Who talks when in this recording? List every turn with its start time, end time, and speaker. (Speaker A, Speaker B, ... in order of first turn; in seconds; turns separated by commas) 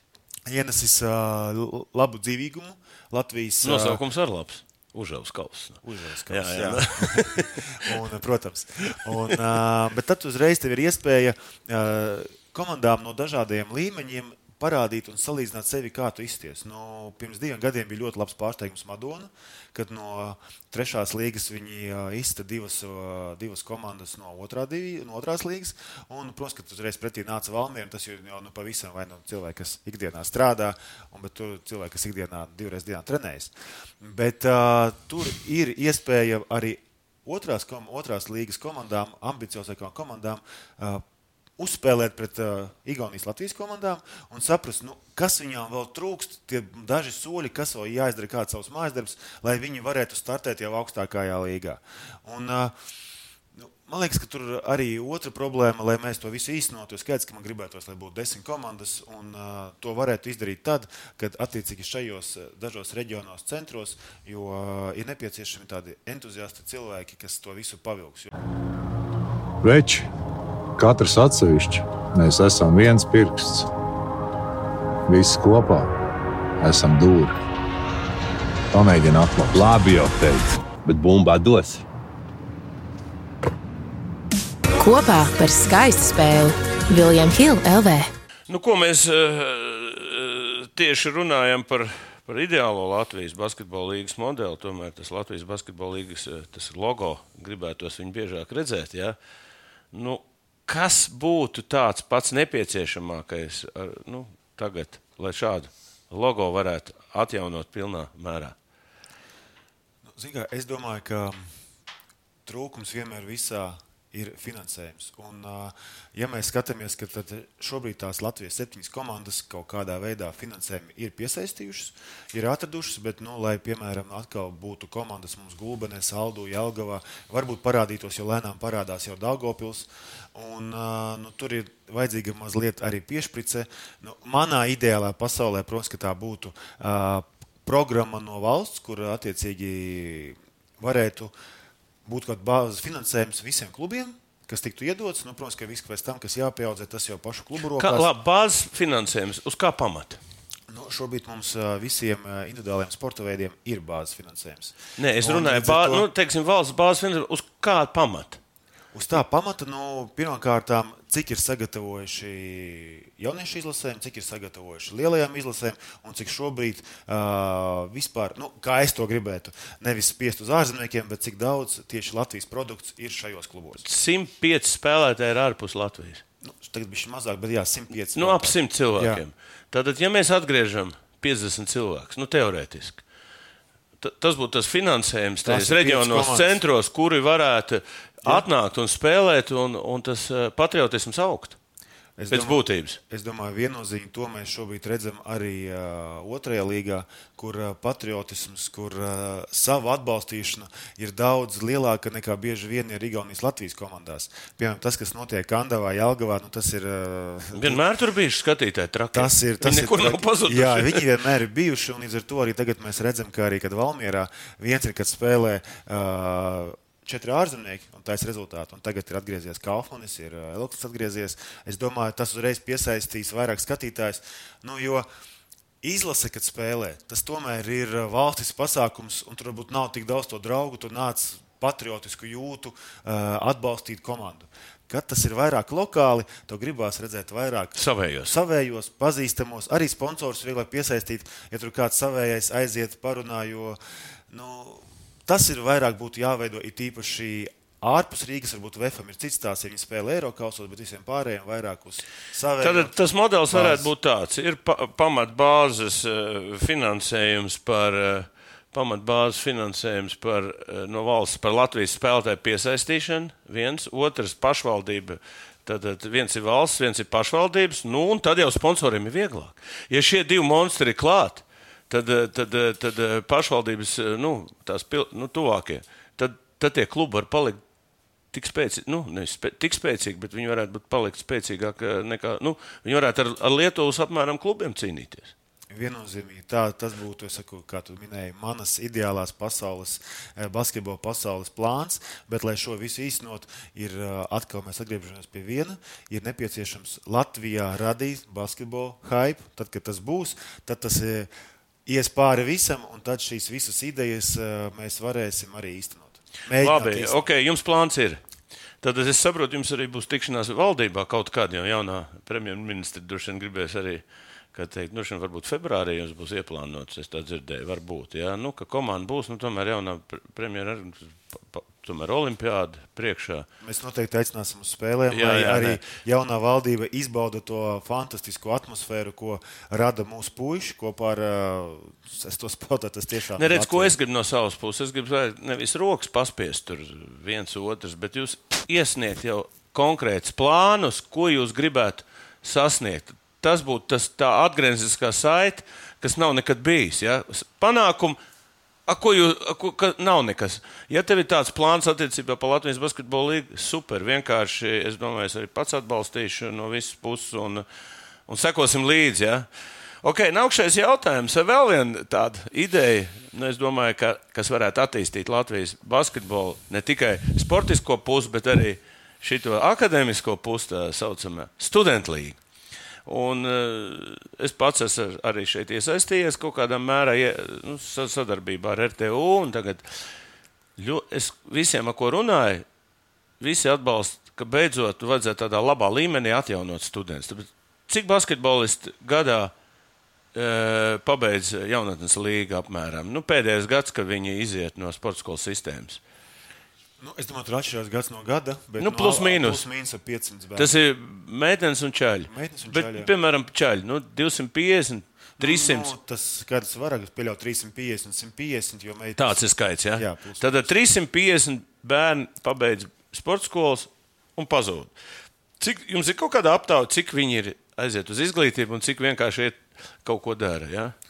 Speaker A: 0.5-4.0, Speaker B: 3.6-7.9, Speaker A: 5.8-41.0, Speaker A: 41.6-52.7, Speaker A: 53.5-68.3, Speaker C: 69.6-70.0, Speaker C: 70.8-73.7, Speaker C: 75.1-75.9, Speaker C: 76.6-77.3, Speaker C: 78.7-79.6, Speaker D: 79.5-81.8, Speaker E: 84.8-88.1, Speaker B: 88.5-99.2, Speaker B: 99.9-108.5, Speaker A: 110.1-111.4, Speaker A: 112.4-141.3, Speaker A: 142.1-148.1, Speaker B: 147.8-150.2, Speaker A: 150.7-156.1, Speaker B: 155.0-158.4, Speaker A: 158.9-173.8, Speaker B: 173.8-176.2, Speaker A: 176.4-179.2, Speaker B: 178.1-183.0, Speaker B: 184.0-191.6, Speaker A: 185.4-186.6, Speaker A: 192.2-207.8, Speaker B: 192.3-193.0, Speaker B: 207.5-211.0, Speaker A: 209.1-225.1, Speaker A: 225.8-243.8, Speaker B: 237.8-238.3, Speaker A: 244.3-253.0, Speaker B: 252.6-277.6, Speaker A: 253.5-253.9, Speaker B: 278.3-285.3, Speaker A: 285.7-301.3, Speaker A: 301.9-307.2, Speaker B: 306.6-308.2, Speaker B: 308.8-323.5, Speaker A: 323.6-333.9, Speaker B: 325.1-325.8, Speaker B: 333.4-348.2, Speaker B: 348.9-357.6, Speaker B: 358.3-359.5, Speaker B: 360.0-372.4, Speaker B: 373.1-379.8, Speaker B: 380.8-382.6, Speaker B: 383.4-389.5, Speaker B: 390.3-396.0, Speaker A: 397.0-400.7, Speaker B: 398.8-399.6, Speaker B: 400.6-405.9, Speaker A: 402.3-403.1, Speaker A: 405.4-409.4, Speaker B: 409.1-414.9, Speaker A: 409.9-410.6, Speaker B: 415.6-420.9